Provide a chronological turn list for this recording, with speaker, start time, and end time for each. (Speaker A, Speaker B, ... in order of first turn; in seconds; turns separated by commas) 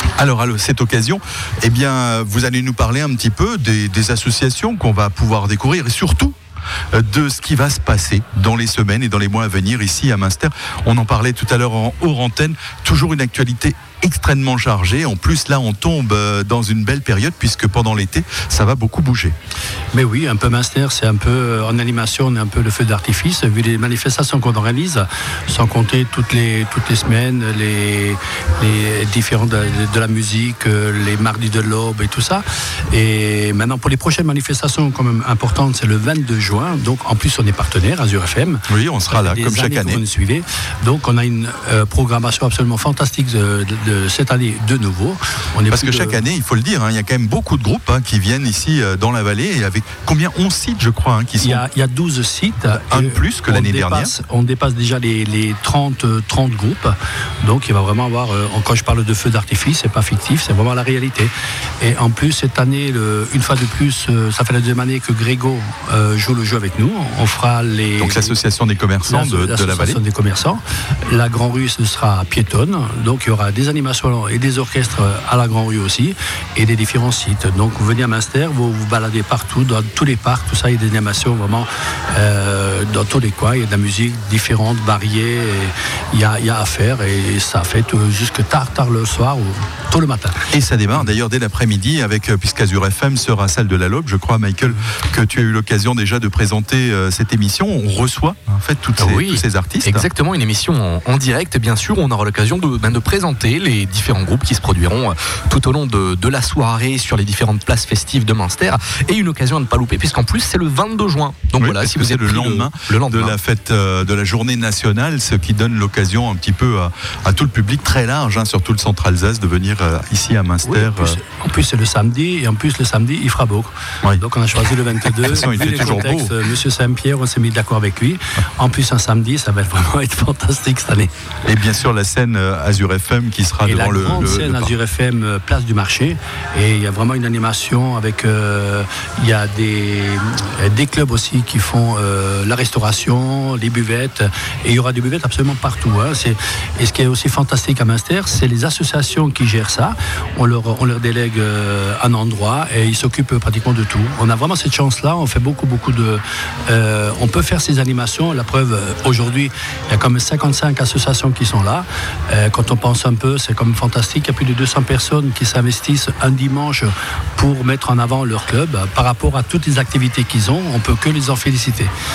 Speaker A: 0.2-6.3, Speaker A: 6.9-19.4, Speaker B: 19.9-46.2, Speaker A: 38.7-40.0, Speaker A: 45.7-51.6, Speaker B: 51.4-68.3, Speaker A: 52.7-54.1, Speaker A: 68.0-70.0, Speaker B: 69.0-90.4, Speaker A: 90.5-100.0, Speaker C: 99.0-113.3, Speaker A: 111.6-121.2, Speaker B: 120.6-131.1, Speaker A: 125.0-126.3, Speaker A: 131.4-134.7, Speaker B: 133.6-171.9